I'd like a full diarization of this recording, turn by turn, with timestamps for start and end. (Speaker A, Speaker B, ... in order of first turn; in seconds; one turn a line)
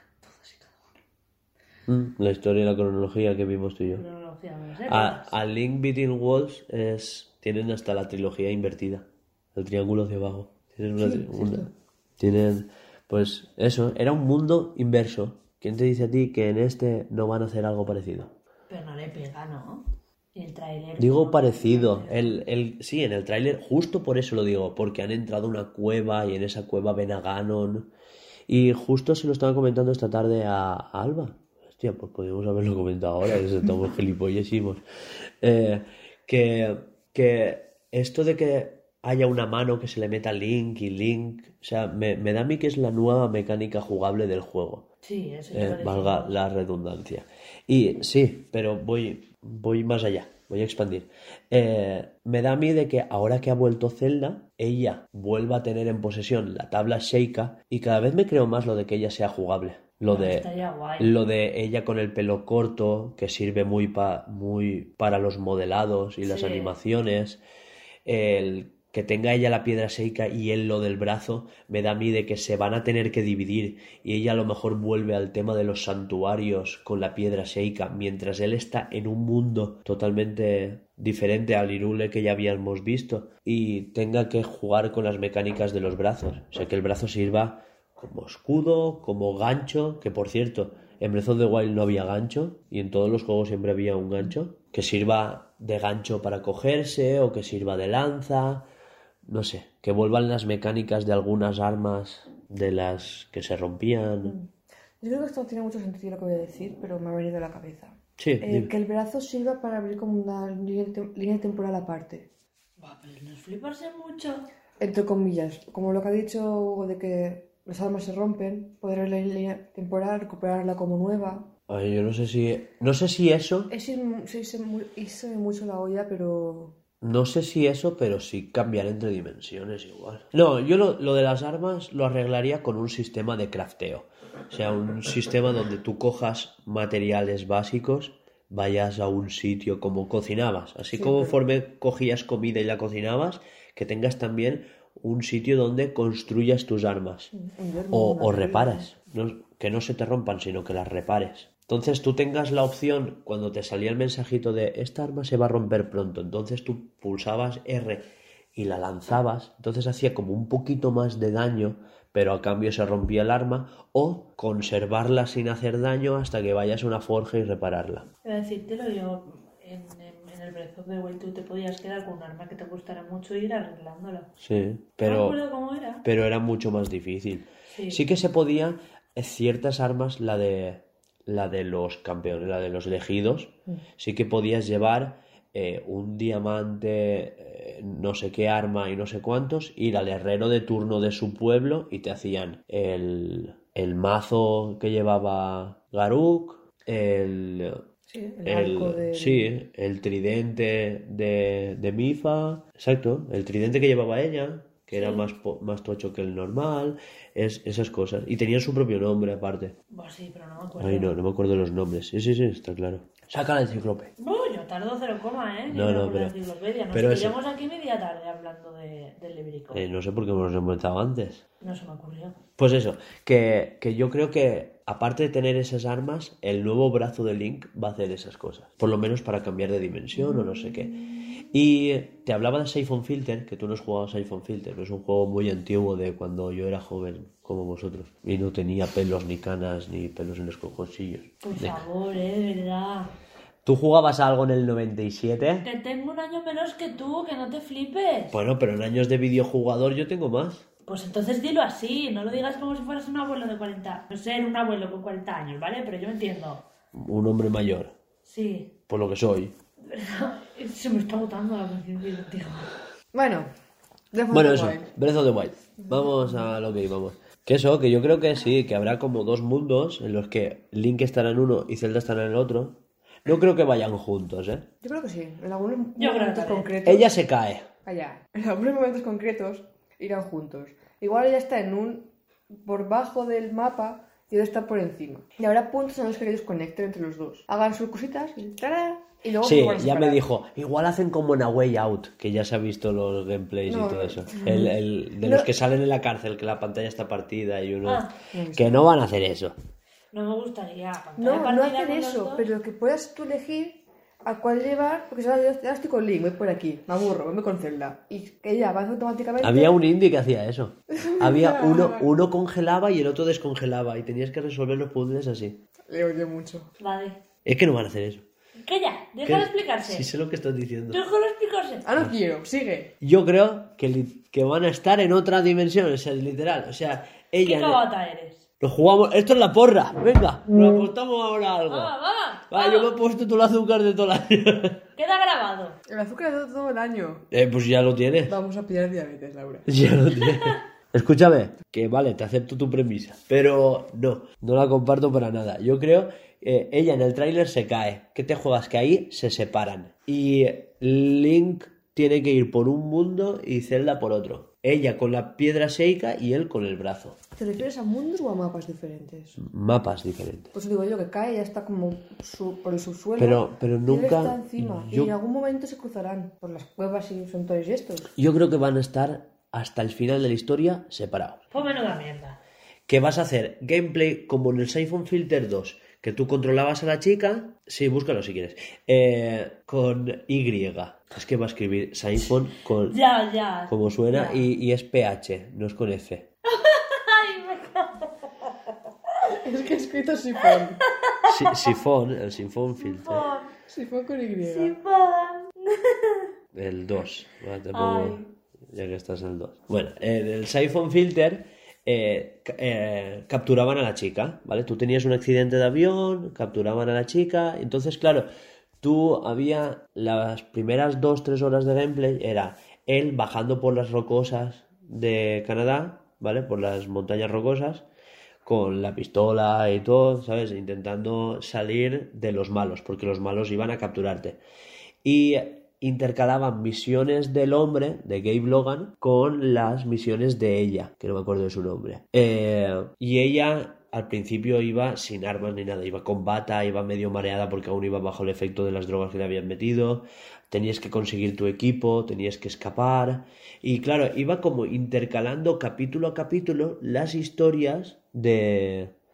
Speaker A: 0.2-1.0
Speaker B: 1.9-4.0
Speaker A: 3.9-5.3
Speaker B: 4.9-11.7
Speaker C: 11.0-11.7
Speaker B: 12.2-18.3
Speaker A: 18.7-22.4
Speaker B: 21.0-27.9
Speaker B: 28.5-34.8
Speaker B: 35.4-44.9
Speaker A: 45.0-46.4
Speaker B: 45.5-60.5
Speaker A: 60.1-61.2
Speaker B: 61.0-67.4
Speaker A: 66.2-66.8
Speaker B: 68.1-98.7
Speaker B: 99.3-104.4
Speaker C: 104.2-104.5
Speaker C: 105.0-112.3
Speaker B: 108.2-108.7
Speaker A: 112.8-114.5
Speaker C: 114.8-121.5
Speaker B: 121.7-123.7
Speaker C: 123.7-126.8
Speaker B: 127.0-147.3
Speaker C: 140.9-141.4
Speaker C: 147.3-148.9
Speaker B: 147.9-168.1
Speaker A: 168.2-174.3
Speaker B: 174.4-175.4
Speaker A: 175.0-176.1
Speaker B: 176.0-197.8
Speaker A: 177.7-178.0
Speaker C: 198.1-199.6
Speaker B: 198.5-209.8
Speaker A: 204.9-205.3
Speaker A: 209.9-211.2
Speaker B: 210.8-214.1
Speaker A: 214.2-219.8
Speaker B: 215.7-216.3
Speaker B: 216.9-217.4
Speaker B: 219.7-221.4
Speaker A: 221.6-222.4
Speaker B: 222.6-241.8
Speaker A: 241.4-243.1
Speaker B: 243.7-245.7
Speaker A: 245.6-248.3
Speaker B: 248.3-250.7
Speaker A: 250.9-256.6
Speaker B: 256.9-257.9
Speaker A: 258.2-258.8
Speaker B: 258.9-259.6
Speaker A: 259.9-262.7
Speaker C: 263.1-263.5
Speaker C: 264.1-264.9
Speaker B: 264.3-274.7
Speaker C: 265.8-266.4
Speaker C: 274.8-277.1
Speaker A: 276.0-276.8
Speaker B: 276.9-277.7
Speaker C: 277.9-290.2
Speaker B: 289.4-299.6
Speaker C: 293.6-295.5
Speaker A: 297.8-298.1
Speaker C: 298.3-298.9
Speaker A: 300.1-302.4
Speaker C: 301.2-309.8
Speaker B: 309.4-315.6
Speaker C: 310.9-312.1
Speaker C: 315.9-316.7
Speaker A: 316.8-317.2
Speaker B: 317.4-318.2
Speaker A: 318.6-320.1
Speaker B: 319.2-321.0
Speaker A: 320.9-321.9
Speaker C: 321.9-322.9
Speaker B: 323.0-327.8
Speaker A: 327.4-328.4
Speaker B: 328.6-331.9
Speaker A: 331.7-332.9
Speaker B: 332.5-334.8
Speaker A: 335.0-335.8
Speaker C: 335.9-337.2
Speaker B: 337.3-338.4
Speaker C: 338.3-339.7
Speaker B: 339.7-357.2
Speaker A: 340.3-340.5
Speaker C: 357.3-359.4
Speaker B: 359.4-360.5
Speaker C: 360.5-368.1
Speaker B: 363.2-365.1
Speaker B: 368.2-371.4
Speaker A: 371.5-372.4
Speaker B: 372.9-383.0
Speaker A: 382.9-384.4
Speaker B: 383.7-386.3
Speaker A: 386.5-388.3
Speaker C: 389.3-390.8
Speaker A: 390.5-391.8
Speaker B: 391.2-393.3
Speaker A: 392.8-393.5
Speaker C: 393.7-394.8
Speaker A: 394.4-396.3
Speaker B: 396.5-408.3
Speaker A: 397.7-398.3
Speaker B: 408.8-417.9
Speaker B: 418.4-424.4
Speaker B: 425.0-448.9